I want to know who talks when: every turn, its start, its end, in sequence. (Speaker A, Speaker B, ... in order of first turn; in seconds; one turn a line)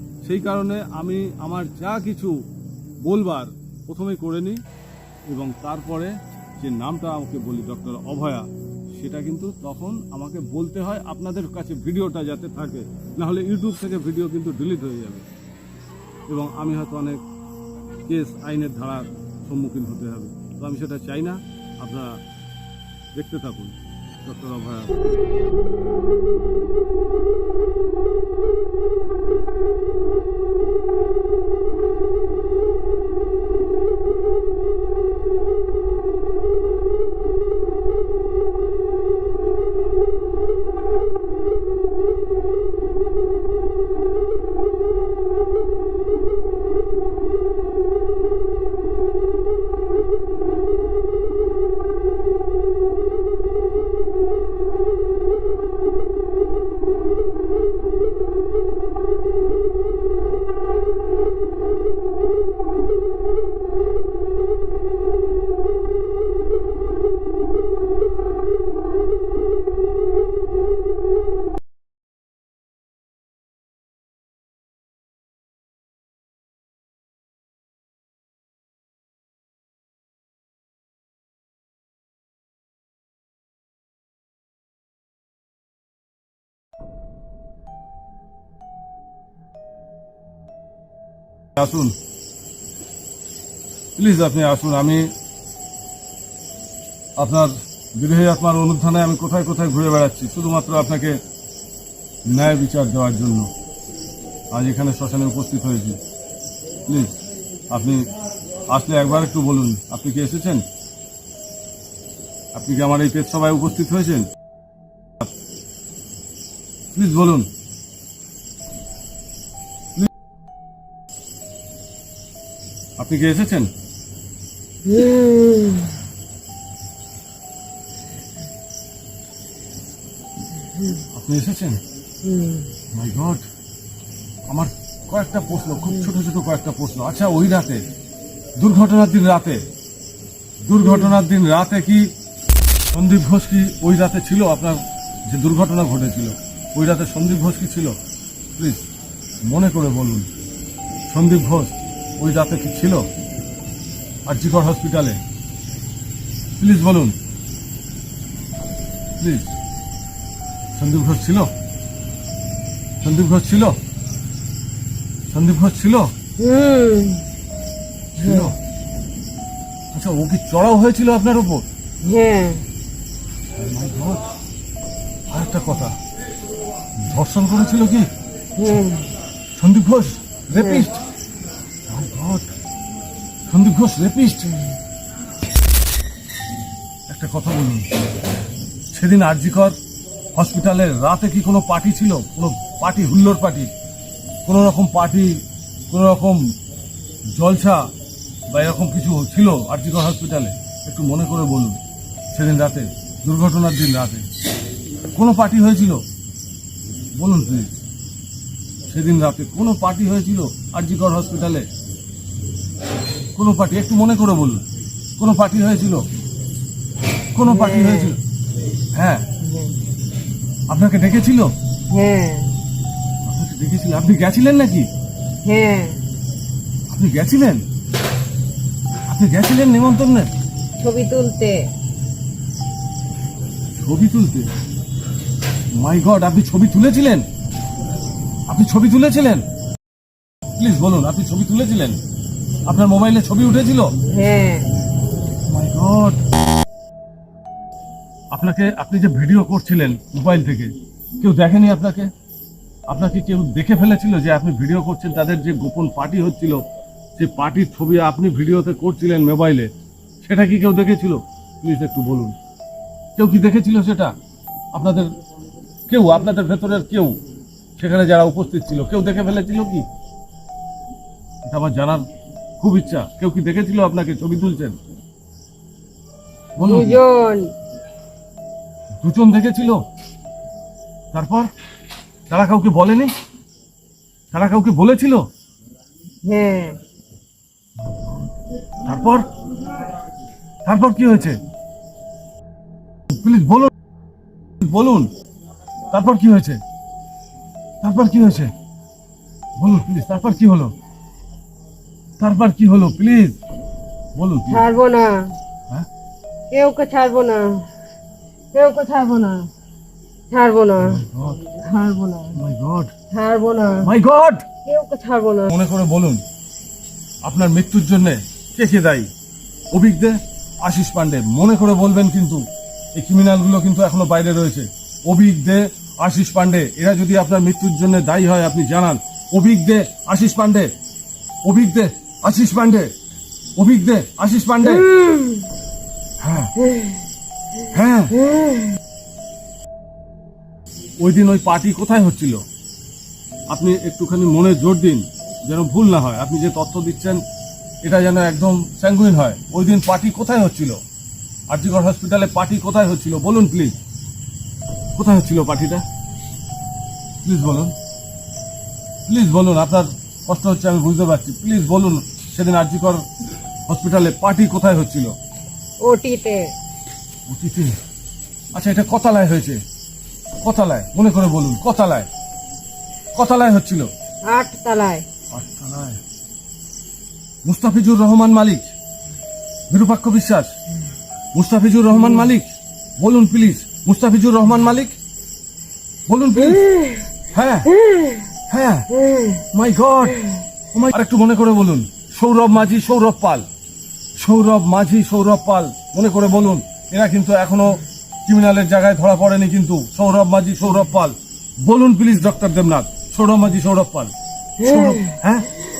Speaker A: 0.2-2.4
Speaker A: 3.0-4.6
Speaker A: 5.3-15.2
Speaker A: 16.3-17.2
Speaker A: 18.1-22.2
Speaker A: 23.1-24.9
Speaker A: 91.5-92.0
Speaker A: 94.0-95.1
Speaker A: 97.2-101.2
Speaker A: 102.2-103.5
Speaker A: 104.5-106.0
Speaker A: 106.8-107.2
Speaker A: 107.7-108.1
Speaker A: 108.7-110.6
Speaker A: 112.5-114.3
Speaker A: 116.9-117.5
Speaker A: 123.0-123.7
Speaker B: 124.8-126.0
Speaker A: 131.1-131.8
Speaker B: 132.2-132.7
Speaker A: 132.9-133.4
Speaker A: 134.5-137.8
Speaker A: 138.6-139.6
Speaker A: 140.6-142.1
Speaker A: 142.9-147.9
Speaker A: 148.6-148.9
Speaker A: 149.4-150.3
Speaker A: 151.1-153.1
Speaker A: 154.3-155.2
Speaker A: 156.6-157.2
Speaker A: 159.2-159.5
Speaker A: 160.7-161.5
Speaker A: 163.0-163.8
Speaker A: 165.3-166.1
Speaker B: 166.4-167.3
Speaker A: 168.2-168.6
Speaker B: 168.2-168.5
Speaker A: 169.9-171.7
Speaker B: 172.0-172.6
Speaker A: 173.6-174.3
Speaker A: 175.3-175.9
Speaker A: 176.9-178.1
Speaker B: 178.6-179.1
Speaker A: 179.6-181.0
Speaker B: 180.5-180.9
Speaker A: 181.9-182.5
Speaker A: 183.5-184.6
Speaker A: 187.1-187.9
Speaker A: 188.9-189.8
Speaker A: 190.3-193.7
Speaker A: 194.4-196.4
Speaker A: 197.3-197.9
Speaker A: 198.5-201.8
Speaker A: 202.3-204.3
Speaker A: 205.1-206.0
Speaker A: 207.1-207.7
Speaker A: 208.9-211.7
Speaker A: 213.3-214.6
Speaker A: 215.2-216.0
Speaker A: 217.3-218.2
Speaker B: 217.4-218.2
Speaker A: 218.9-219.3
Speaker B: 219.4-219.8
Speaker A: 220.7-221.5
Speaker B: 221.9-222.5
Speaker A: 223.2-224.9
Speaker B: 225.4-226.0
Speaker A: 226.9-227.6
Speaker A: 229.1-230.3
Speaker B: 230.8-231.7
Speaker A: 233.8-234.5
Speaker A: 235.7-237.3
Speaker A: 238.5-239.4
Speaker A: 240.6-242.0
Speaker A: 242.7-243.9
Speaker B: 244.1-244.7
Speaker A: 245.4-246.2
Speaker A: 248.3-252.1
Speaker A: 252.9-256.6
Speaker A: 257.2-259.7
Speaker A: 260.2-262.4
Speaker A: 263.1-264.1
Speaker A: 264.7-265.1
Speaker A: 265.9-267.2
Speaker A: 267.8-269.9
Speaker A: 271.4-272.0
Speaker A: 272.6-274.8
Speaker A: 276.6-277.0
Speaker B: 276.6-277.5
Speaker A: 279.0-279.8
Speaker A: 281.1-281.5
Speaker A: 282.3-283.1
Speaker A: 284.3-285.2
Speaker B: 286.2-286.8
Speaker A: 288.8-289.3
Speaker A: 290.6-291.4
Speaker A: 293.1-293.7
Speaker A: 294.6-295.1
Speaker A: 295.9-296.6
Speaker A: 297.8-298.5
Speaker A: 299.6-300.7
Speaker A: 302.2-303.4
Speaker A: 304.1-304.7
Speaker B: 304.5-305.3
Speaker B: 306.5-307.7
Speaker B: 308.5-309.5
Speaker B: 310.3-312.4
Speaker A: 310.8-311.5
Speaker A: 312.3-312.9
Speaker B: 313.1-313.9
Speaker A: 313.8-314.5
Speaker B: 314.6-315.5
Speaker A: 315.5-316.2
Speaker A: 317.2-319.1
Speaker A: 319.7-322.4
Speaker A: 322.9-330.7
Speaker A: 331.4-332.9
Speaker A: 333.6-334.9
Speaker B: 334.8-335.4
Speaker A: 336.2-336.7
Speaker A: 337.7-338.3
Speaker A: 341.0-342.4
Speaker A: 343.5-347.2
Speaker A: 347.8-350.8
Speaker A: 351.5-353.8
Speaker A: 354.9-355.8
Speaker A: 357.2-357.7
Speaker A: 359.1-363.0
Speaker A: 363.7-365.1
Speaker B: 365.8-366.5
Speaker A: 367.2-367.8
Speaker A: 368.5-369.6
Speaker A: 370.4-372.1
Speaker A: 373.1-373.9
Speaker B: 374.3-375.0
Speaker A: 375.3-376.0
Speaker A: 377.4-378.7
Speaker A: 379.7-380.5
Speaker A: 381.3-384.9
Speaker A: 386.1-386.8
Speaker A: 387.3-387.7
Speaker A: 388.5-393.4
Speaker A: 394.2-405.6